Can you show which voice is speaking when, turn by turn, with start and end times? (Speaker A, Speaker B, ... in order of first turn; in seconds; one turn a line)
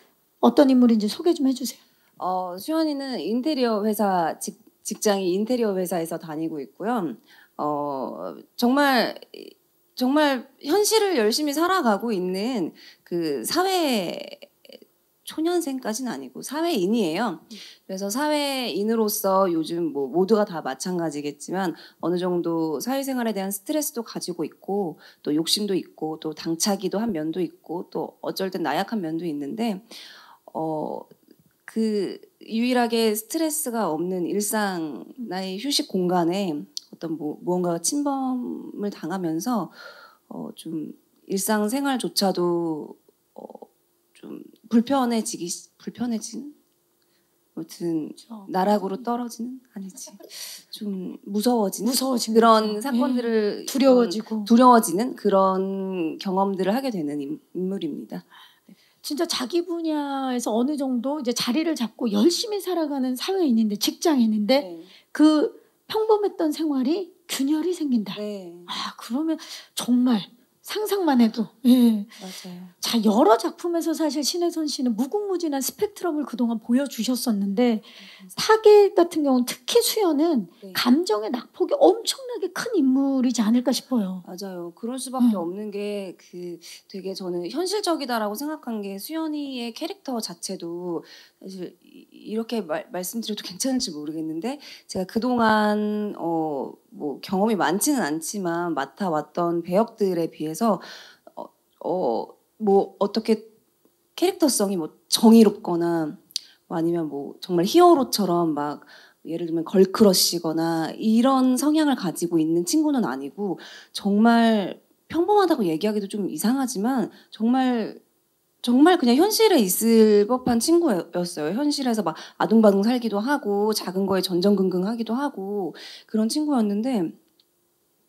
Speaker A: 0.4-1.8
Speaker B: 2.2-31.1
Speaker B: 31.7-43.6
Speaker B: 44.1-46.5
Speaker B: 47.5-58.7
Speaker A: 48.2-49.0
Speaker A: 51.8-54.5
Speaker A: 59.0-72.2
Speaker B: 64.5-64.9
Speaker B: 68.1-68.7
Speaker B: 72.2-72.7
Speaker A: 72.8-84.2
Speaker B: 78.0-78.3
Speaker B: 84.2-103.4
Speaker A: 85.2-85.4
Speaker B: 104.2-118.0
Speaker B: 118.6-127.1